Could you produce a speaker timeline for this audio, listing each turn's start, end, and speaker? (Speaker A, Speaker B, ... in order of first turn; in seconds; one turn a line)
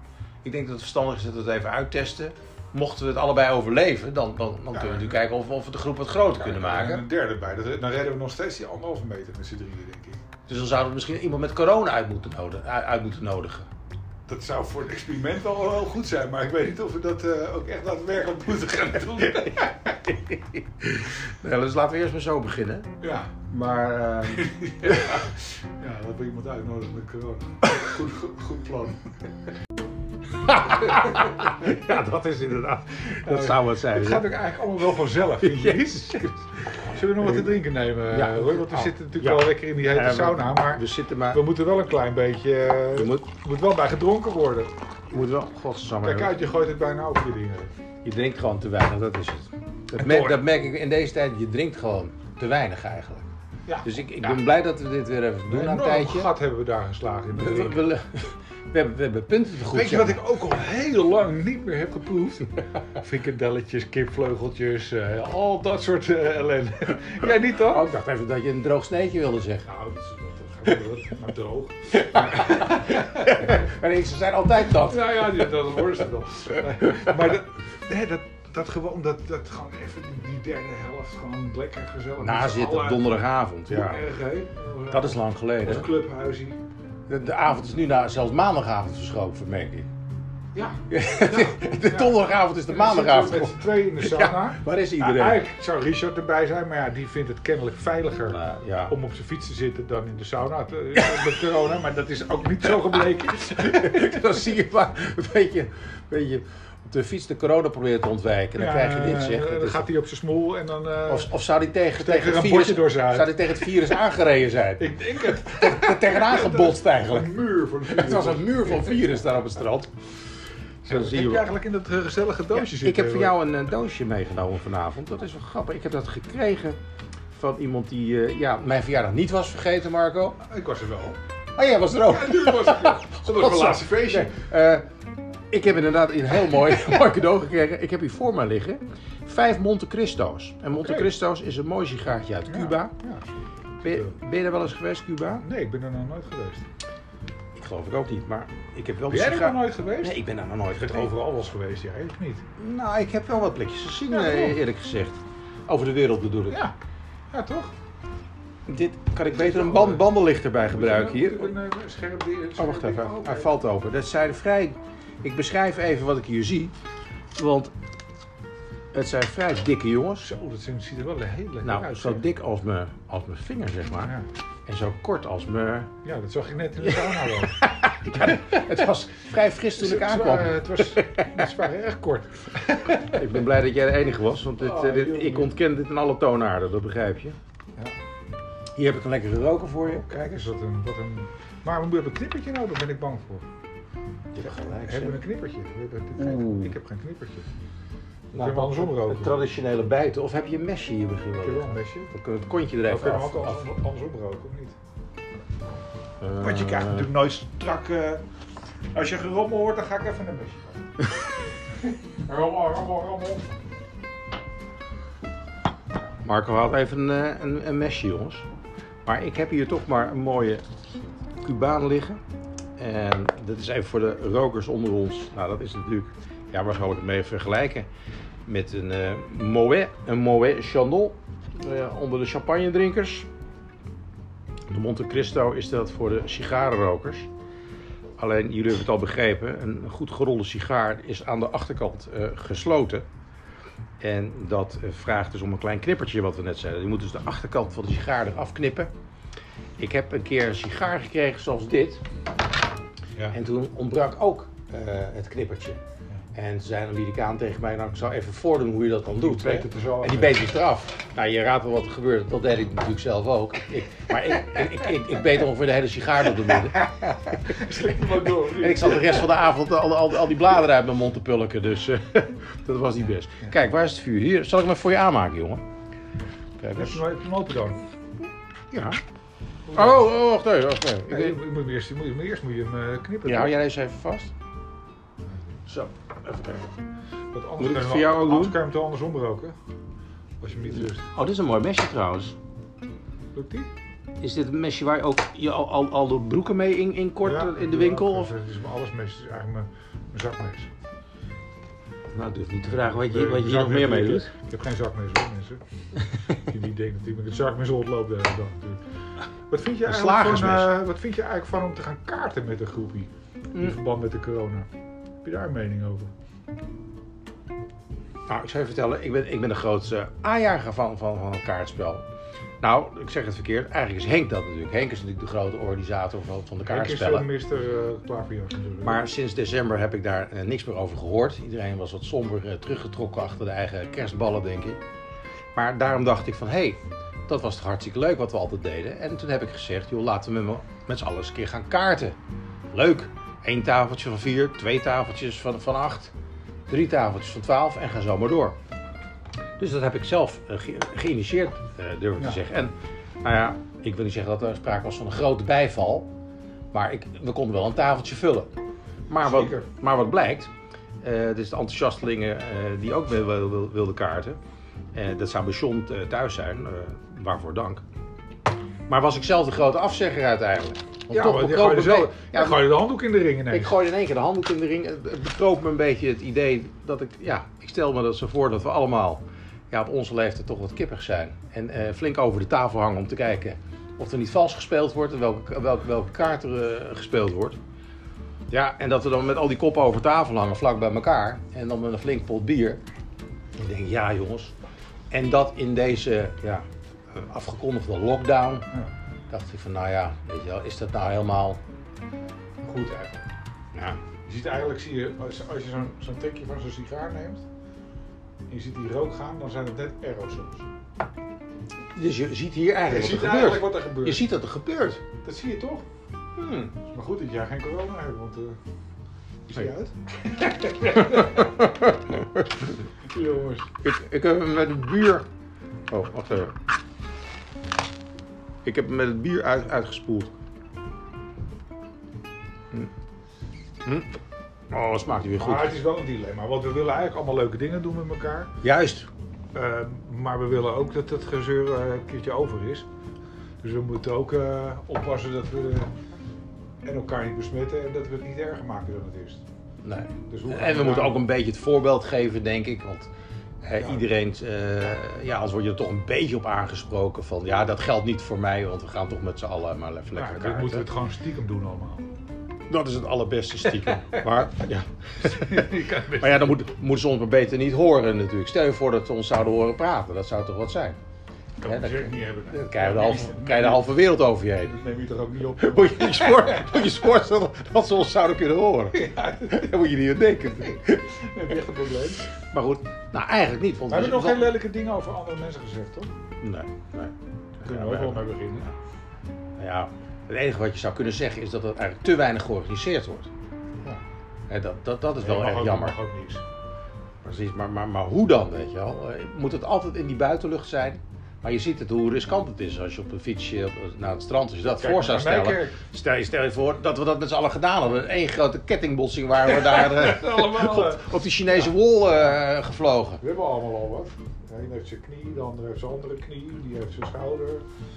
Speaker A: 0.4-7.0
Speaker B: 4.7-5.2
Speaker B: 6.3-10.2
Speaker A: 10.5-13.7
Speaker B: 14.3-19.6
Speaker A: 19.3-22.9
Speaker B: 23.0-23.4
Speaker A: 23.5-25.3
Speaker B: 24.3-29.0
Speaker A: 30.4-34.3
Speaker B: 33.2-36.3
Speaker A: 35.4-41.5
Speaker B: 36.9-44.7
Speaker A: 42.9-43.3
Speaker A: 45.1-46.3
Speaker B: 46.0-47.7
Speaker A: 48.0-53.3
Speaker B: 50.0-50.4
Speaker B: 53.7-54.4
Speaker A: 53.8-56.3
Speaker B: 55.5-57.9
Speaker A: 57.3-60.2
Speaker B: 59.7-67.9
Speaker A: 67.7-69.7
Speaker B: 69.6-73.3
Speaker A: 71.9-75.4
Speaker B: 74.7-86.6
Speaker A: 82.2-84.0
Speaker A: 84.9-85.9
Speaker A: 87.1-89.9
Speaker B: 90.5-104.2
Speaker A: 90.9-95.5
Speaker A: 98.3-98.9
Speaker A: 101.0-101.4
Speaker A: 102.8-109.9
Speaker B: 108.6-111.3
Speaker A: 111.1-119.9
Speaker B: 112.0-114.0
Speaker B: 114.8-119.1
Speaker A: 120.8-121.5
Speaker B: 120.8-123.4
Speaker A: 122.5-126.8
Speaker A: 127.3-130.4
Speaker B: 130.4-131.2
Speaker A: 131.6-134.8
Speaker B: 132.0-134.3
Speaker A: 135.5-142.9
Speaker B: 140.8-141.1
Speaker B: 142.5-144.1
Speaker A: 143.8-145.4
Speaker B: 145.4-146.6
Speaker A: 147.5-151.1
Speaker B: 149.1-150.2
Speaker B: 150.7-152.4
Speaker A: 152.6-156.6
Speaker B: 154.1-154.6
Speaker B: 156.5-156.7
Speaker B: 157.3-157.7
Speaker A: 158.7-161.5
Speaker B: 159.3-160.1
Speaker B: 160.7-163.5
Speaker A: 162.6-166.7
Speaker A: 167.3-167.7
Speaker A: 168.9-170.3
Speaker B: 170.2-172.2
Speaker A: 171.6-175.9
Speaker B: 176.0-177.6
Speaker A: 176.8-181.4
Speaker B: 179.8-183.4
Speaker A: 183.1-187.4
Speaker B: 184.6-185.5
Speaker A: 188.8-190.2
Speaker B: 190.0-193.4
Speaker A: 194.3-195.2
Speaker B: 194.6-197.5
Speaker A: 196.2-196.7
Speaker A: 198.3-203.7
Speaker B: 198.4-199.4
Speaker B: 201.4-202.1
Speaker B: 202.8-204.7
Speaker A: 206.2-207.1
Speaker B: 206.4-208.2
Speaker B: 208.9-210.9
Speaker B: 212.1-213.5
Speaker A: 216.2-218.4
Speaker A: 219.0-220.6
Speaker A: 221.4-222.2
Speaker A: 222.8-227.9
Speaker A: 228.4-233.3
Speaker A: 234.7-237.3
Speaker A: 238.2-243.1
Speaker A: 244.0-248.9
Speaker A: 249.8-252.0
Speaker A: 253.3-255.8
Speaker A: 256.3-275.6
Speaker B: 259.1-260.4
Speaker B: 267.4-269.4
Speaker A: 276.6-277.0
Speaker B: 276.7-277.8
Speaker A: 278.7-279.0
Speaker B: 279.7-280.1
Speaker A: 279.7-281.4
Speaker B: 281.1-283.5
Speaker A: 283.2-284.3
Speaker A: 285.7-286.6
Speaker B: 287.3-289.5
Speaker A: 287.6-288.6
Speaker B: 290.4-291.1
Speaker A: 290.8-292.3
Speaker B: 293.3-293.7
Speaker A: 294.2-298.3
Speaker B: 297.2-300.7
Speaker A: 302.1-304.3
Speaker B: 302.9-305.6
Speaker B: 306.3-308.8
Speaker B: 309.5-314.7
Speaker A: 309.8-310.8
Speaker B: 315.2-316.1
Speaker A: 318.3-322.0
Speaker A: 322.6-327.3
Speaker B: 326.6-329.0
Speaker A: 328.8-334.8
Speaker A: 335.5-342.1
Speaker A: 342.7-346.1
Speaker A: 346.7-348.6
Speaker A: 349.6-356.1
Speaker A: 356.7-358.5
Speaker A: 359.1-360.5
Speaker B: 359.2-359.7
Speaker A: 361.0-364.4
Speaker A: 364.9-367.8
Speaker A: 368.9-372.8
Speaker B: 371.1-373.8
Speaker A: 373.5-387.6
Speaker A: 388.5-392.8
Speaker A: 393.6-394.5
Speaker A: 395.1-398.7
Speaker A: 399.3-401.6
Speaker B: 402.6-403.3
Speaker B: 404.2-407.4
Speaker B: 408.5-410.7
Speaker A: 411.9-415.0
Speaker B: 412.8-414.3
Speaker B: 415.2-415.8
Speaker A: 416.4-416.7
Speaker B: 416.9-418.6
Speaker B: 419.5-421.5
Speaker A: 420.8-422.7
Speaker B: 423.1-423.7
Speaker A: 423.8-425.3
Speaker A: 425.9-426.5
Speaker A: 428.6-430.3
Speaker A: 433.8-434.1
Speaker A: 434.7-435.8
Speaker B: 435.4-438.5
Speaker A: 438.6-439.1
Speaker B: 439.5-442.9
Speaker B: 443.6-445.9
Speaker B: 446.8-449.4
Speaker A: 449.8-453.1
Speaker B: 450.3-451.2
Speaker A: 453.6-460.9
Speaker B: 453.8-454.1
Speaker B: 460.1-462.1
Speaker A: 462.7-471.0
Speaker B: 465.2-466.6
Speaker B: 471.6-474.0
Speaker A: 471.6-474.8
Speaker B: 474.6-476.9
Speaker A: 475.6-481.2
Speaker B: 478.9-479.8
Speaker B: 480.6-482.3
Speaker A: 482.3-484.6
Speaker B: 483.9-486.1
Speaker A: 486.4-488.2
Speaker B: 487.6-488.7
Speaker A: 489.6-493.3
Speaker A: 494.5-495.9
Speaker B: 495.2-496.4
Speaker A: 497.2-513.2
Speaker B: 504.8-505.8
Speaker B: 509.5-511.1
Speaker B: 513.2-517.6